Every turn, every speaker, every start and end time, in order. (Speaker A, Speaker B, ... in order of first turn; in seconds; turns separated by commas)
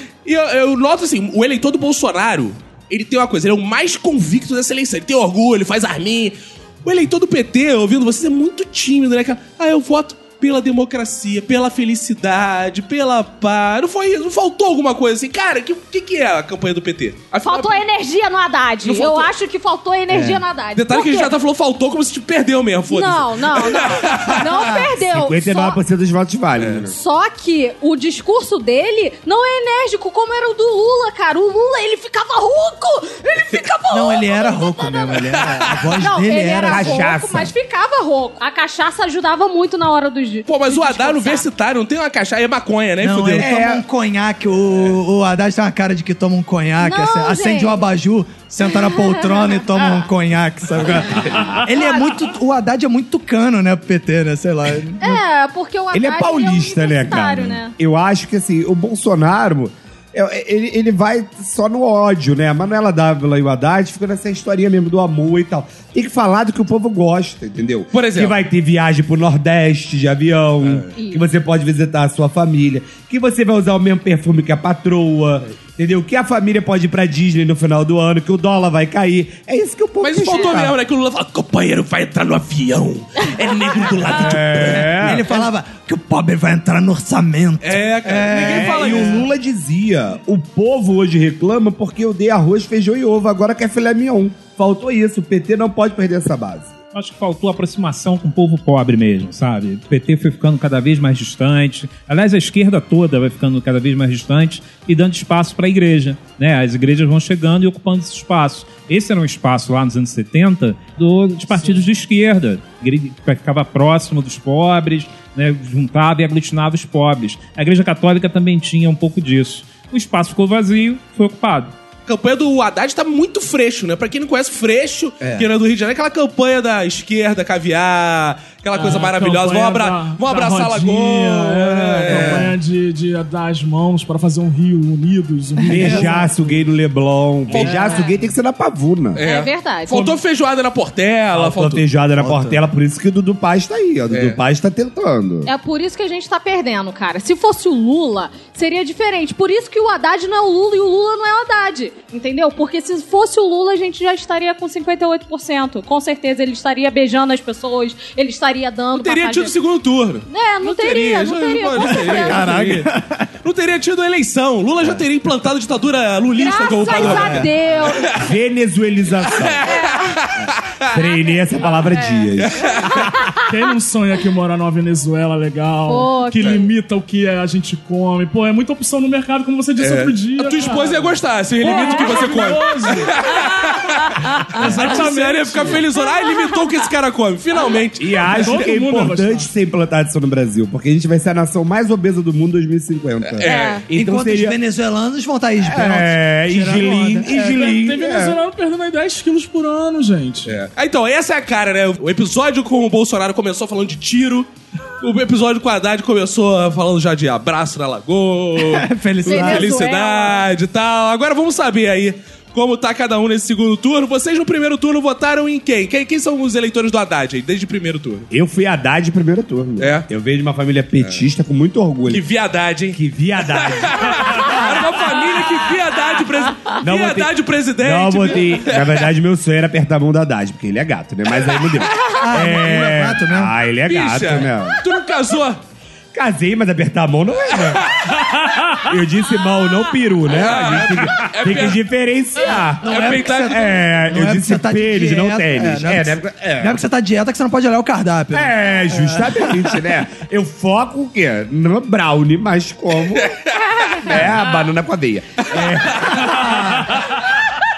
Speaker A: 0.2-17.8, Speaker B: 17.4-21.3, Speaker A: 18.8-19.3, Speaker C: 20.1-20.4, Speaker A: 20.7-24.7, Speaker B: 22.9-25.8, Speaker D: 24.9-26.9, Speaker A: 26.6-26.9, Speaker B: 26.9-35.3, Speaker C: 33.9-37.0, Speaker B: 36.0-41.5, Speaker D: 36.6-37.5, Speaker A: 40.5-43.5, Speaker C: 43.0-55.2, Speaker D: 43.4-43.8, Speaker B: 46.8-47.8, Speaker B: 55.0-57.7, Speaker D: 55.9-80.7, Speaker A: 67.9-68.4, Speaker A: 70.6-70.9, Speaker B: 70.9-71.2, Speaker A: 80.0-85.4, Speaker D: 84.0-85.3, Speaker C: 84.7-89.3, Speaker A: 87.6-89.3, Speaker D: 88.3-96.7, Speaker E: 96.9-121.7, Speaker A: 122.0-132.5, Speaker C: 125.2-125.5, Speaker F: 128.7-136.2, Speaker C: 132.0-132.5, Speaker D: 135.7-139.2, Speaker C: 135.7-136.3, Speaker A: 137.5-138.1, Speaker C: 137.6-137.9, Speaker A: 139.1-141.8, Speaker B: 139.2-140.2, Speaker D: 141.3-145.5, Speaker C: 142.2-142.6, Speaker A: 144.1-144.4, Speaker B: 145.4-159.5, Speaker A: 158.9-168.2, Speaker B: 160.3-162.5, Speaker C: 162.1-163.3, Speaker B: 166.3-168.1, Speaker C: 166.9-167.5, Speaker D: 168.1-169.7, Speaker A: 169.3-170.8, Speaker B: 169.6-170.3, Speaker D: 170.9-172.9, Speaker B: 171.6-173.5, Speaker A: 172.4-173.1, Speaker F: 173.4-183.2, Speaker B: 175.9-176.7, Speaker A: 179.8-188.5, Speaker F: 184.5-185.8, Speaker B: 186.0-186.6, Speaker D: 188.0-194.6, Speaker F: 188.3-189.5, Speaker A: 193.3-193.8, Speaker B: 193.4-193.8, Speaker C: 193.9-197.7, Speaker D: 195.6-198.4, Speaker F: 197.3-200.6, Speaker A: 200.4-204.5, Speaker A: 205.0-218.3, Speaker C: 208.6-209.7, Speaker B: 209.2-210.5, Speaker D: 218.3-222.2, Speaker A: 219.8-220.1, Speaker A: 221.0-221.2, Speaker A: 222.0-229.0, Speaker D: 222.9-224.7, Speaker D: 226.8-234.8, Speaker A: 231.5-231.8, Speaker C: 232.2-233.5, Speaker A: 233.9-235.6, Speaker D: 236.1-237.9, Speaker A: 237.7-238.3, Speaker D: 238.8-246.8, Speaker A: 240.3-241.8, Speaker C: 242.8-249.8, Speaker A: 242.8-243.7, Speaker D: 248.3-253.3, Speaker A: 253.1-254.1, Speaker D: 253.9-257.0, Speaker A: 255.5-256.1, Speaker C: 256.4-256.9